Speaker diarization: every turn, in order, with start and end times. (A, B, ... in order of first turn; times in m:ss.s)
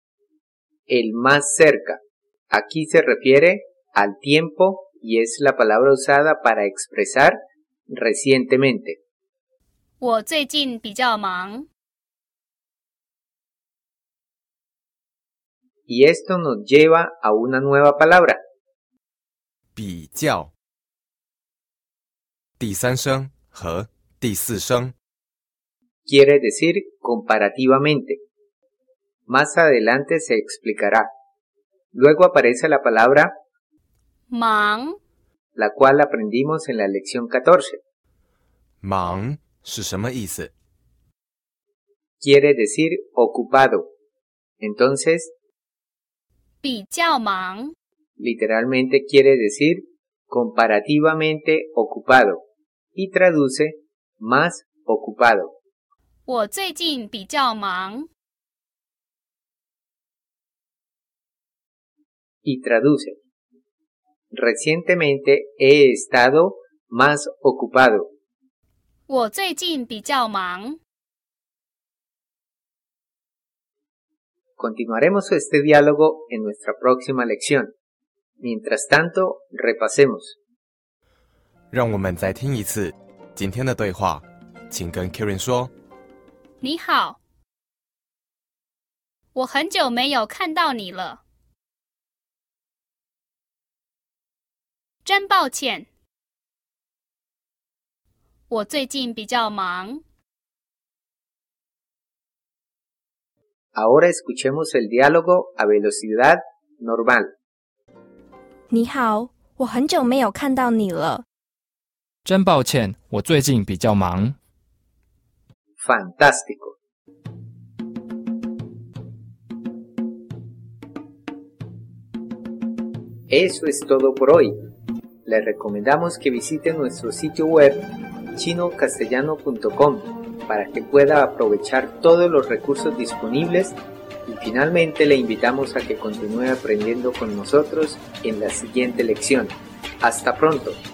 0:00.9-0:07.4 A
0:07.9-0:09.0 A
0:10.0-0:11.7 B
0:15.9-0:18.4 A
0:19.8-0:20.5 C
0:22.6-0:24.9 C
0:26.0-0:28.2 A
0:29.3-0:31.1 A
0:31.9-0:33.3 A
0:34.3-0:35.0 B
0:35.6-0:37.8 A
0:38.8-0:40.5 C
0:42.2-0:43.9 A
0:44.6-0:45.3 A
0:46.6-0:47.7 B
0:48.2-0:52.4 A
0:52.9-0:55.5 A
0:56.3-0:58.1 B
1:02.4-1:03.2 A
1:04.3-1:08.1 A
1:09.1-1:10.8 B
1:14.6-1:17.7 A
1:18.4-1:20.4 A
1:21.7-1:25.7 C
1:26.6-1:27.2 B
1:29.3-1:31.2 B
1:35.0-1:35.9 B
1:38.5-1:40.0 B
1:43.7-1:47.3 A
1:48.7-1:51.2 D
1:52.2-1:54.3 E
1:55.8-1:56.8 A
2:03.3-2:04.6 A
2:05.2-2:20.8 A